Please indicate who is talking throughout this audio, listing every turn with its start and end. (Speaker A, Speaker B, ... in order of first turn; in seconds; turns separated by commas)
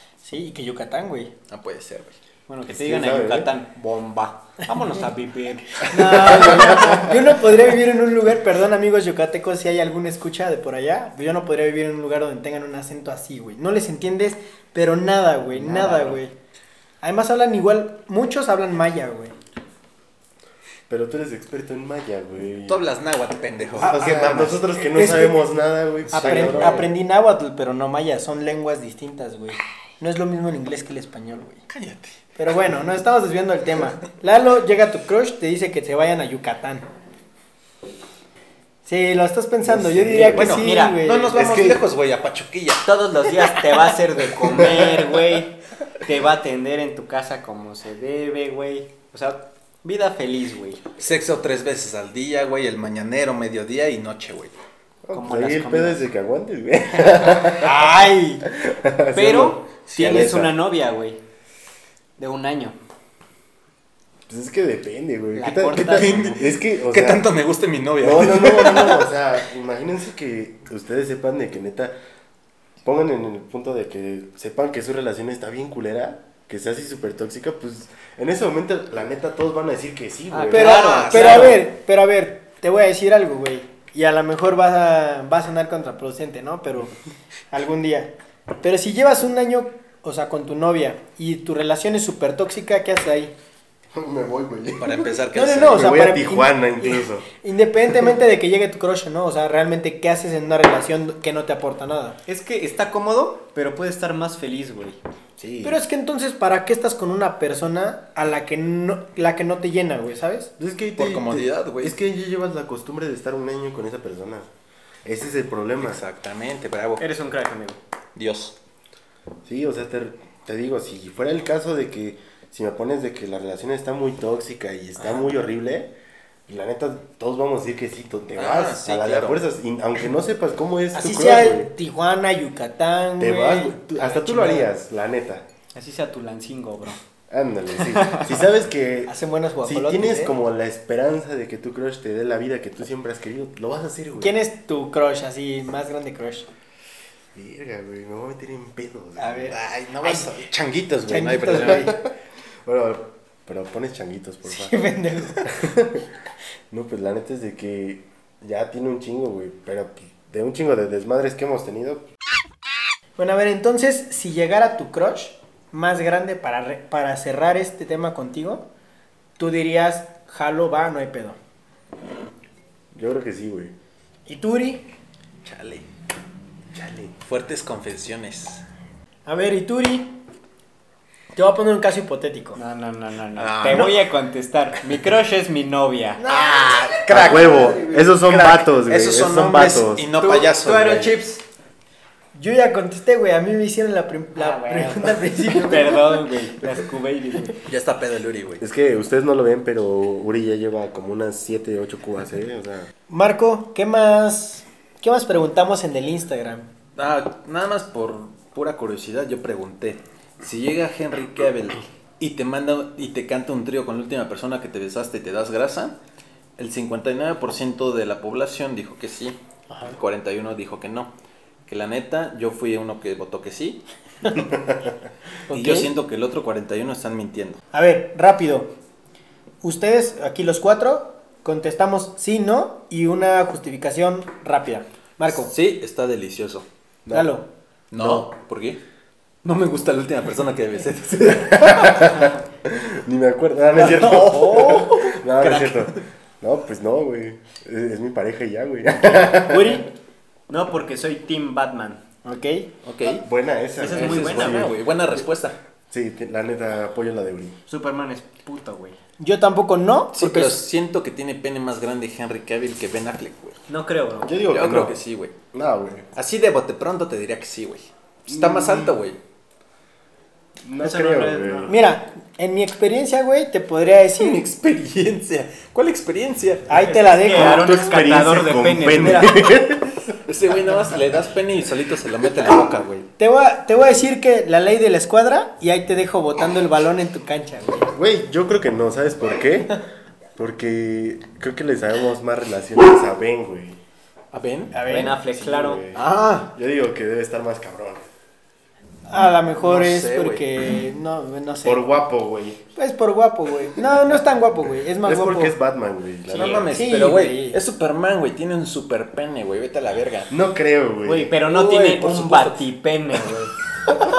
Speaker A: 0.2-1.3, Speaker B: 1.5-2.1, Speaker C: 2.5-7.1, Speaker D: 2.6-3.5, Speaker A: 5.8-16.3, Speaker D: 6.0-7.0, Speaker B: 15.7-16.1, Speaker A: 17.0-19.3, Speaker D: 20.9-22.8, Speaker B: 22.7-24.6, Speaker D: 23.8-26.9, Speaker A: 24.0-24.3, Speaker A: 24.9-25.4, Speaker B: 26.1-26.8, Speaker A: 26.1-31.6, Speaker B: 31.7-32.1, Speaker A: 32.4-36.9, Speaker A: 38.8-41.4, Speaker D: 39.6-40.6, Speaker B: 40.2-43.8, Speaker C: 40.4-41.0, Speaker D: 41.3-41.8, Speaker C: 42.8-50.8, Speaker B: 51.0-54.5, Speaker D: 55.0-57.9, Speaker C: 55.1-56.0, Speaker A: 57.6-58.4, Speaker D: 58.5-60.5, Speaker C: 59.1-61.2, Speaker B: 60.0-60.3, Speaker C: 62.2-62.8, Speaker D: 64.3-67.2, Speaker C: 65.3-66.4, Speaker B: 65.8-69.1, Speaker D: 68.0-71.9, Speaker D: 72.8-80.9, Speaker C: 80.3-81.6, Speaker A: 80.5-86.9, Speaker B: 80.5-81.6, Speaker A: 87.5-93.3, Speaker D: 93.9-95.1, Speaker B: 94.8-96.0, Speaker A: 95.3-102.2, Speaker D: 95.6-97.3, Speaker C: 102.2-105.0, Speaker D: 105.4-105.8, Speaker A: 105.6-110.5, Speaker D: 110.6-114.5, Speaker B: 111.0-111.9, Speaker D: 115.0-116.0, Speaker B: 115.8-117.0, Speaker C: 117.0-117.8, Speaker B: 118.1-118.5, Speaker D: 119.4-125.9, Speaker D: 126.5-131.7, Speaker B: 128.4-129.4, Speaker A: 130.9-134.7, Speaker D: 133.2-135.4, Speaker C: 135.7-137.0, Speaker D: 137.3-144.4, Speaker C: 137.8-138.3, Speaker A: 139.1-140.4, Speaker A: 144.2-146.5, Speaker D: 147.3-149.6, Speaker A: 149.2-150.3, Speaker B: 149.5-151.9, Speaker A: 151.1-151.9, Speaker D: 151.5-154.8, Speaker A: 154.4-155.5, Speaker D: 155.4-156.0, Speaker D: 156.7-162.1, Speaker A: 163.2-168.7, Speaker A: 169.4-171.4, Speaker D: 172.9-173.7, Speaker A: 174.3-174.9, Speaker B: 175.4-175.9, Speaker D: 176.7-177.1, Speaker B: 177.2-178.6, Speaker A: 179.2-180.1, Speaker A: 181.3-182.6, Speaker C: 182.6-186.2, Speaker B: 183.3-184.0, Speaker A: 186.2-188.2, Speaker B: 186.3-187.6, Speaker D: 187.1-190.1, Speaker B: 188.8-191.2, Speaker C: 190.2-191.4, Speaker A: 192.3-196.2, Speaker C: 194.4-197.6, Speaker B: 197.6-198.6, Speaker D: 198.6-202.9, Speaker A: 203.1-206.7, Speaker B: 207.0-215.9, Speaker B: 216.6-219.4, Speaker A: 219.7-220.0, Speaker B: 219.9-221.1, Speaker B: 221.7-223.8, Speaker A: 225.5-225.9, Speaker B: 225.5-227.6, Speaker A: 227.7-228.7, Speaker A: 229.6-235.5, Speaker B: 235.3-236.7, Speaker D: 237.0-237.3, Speaker A: 237.1-237.5, Speaker B: 237.9-238.8, Speaker D: 238.0-238.3, Speaker B: 239.4-242.1, Speaker D: 241.2-249.8, Speaker B: 243.9-244.2, Speaker C: 244.1-244.9, Speaker A: 244.4-244.8, Speaker A: 249.3-249.9, Speaker C: 250.5-252.0, Speaker A: 252.2-252.7, Speaker B: 252.8-253.2, Speaker D: 253.0-254.8, Speaker C: 253.8-254.7, Speaker B: 253.8-255.6, Speaker D: 255.9-257.6, Speaker C: 257.7-259.0, Speaker A: 259.2-260.6, Speaker B: 260.1-263.6, Speaker C: 263.7-264.3, Speaker D: 264.2-264.9, Speaker B: 264.5-265.3, Speaker D: 265.5-266.1, Speaker B: 266.1-269.2, Speaker D: 268.3-269.0, Speaker D: 270.6-271.8, Speaker C: 270.8-271.7, Speaker A: 271.7-274.4, Speaker B: 274.2-276.8, Speaker A: 276.7-277.8, Speaker C: 276.8-279.4, Speaker D: 277.3-280.0, Speaker B: 280.2-283.1, Speaker A: 283.2-287.9, Speaker D: 287.9-289.8, Speaker D: 290.4-293.8, Speaker B: 294.3-294.7, Speaker A: 294.7-295.2, Speaker C: 294.8-295.8, Speaker D: 295.3-298.0, Speaker B: 295.9-296.5, Speaker A: 299.1-301.8, Speaker B: 299.6-300.4, Speaker D: 301.6-302.6, Speaker A: 302.8-305.6, Speaker D: 305.0-306.8, Speaker B: 306.3-310.3, Speaker C: 306.3-306.6, Speaker A: 306.7-307.6, Speaker D: 310.3-311.3, Speaker C: 311.0-313.5, Speaker B: 311.4-312.7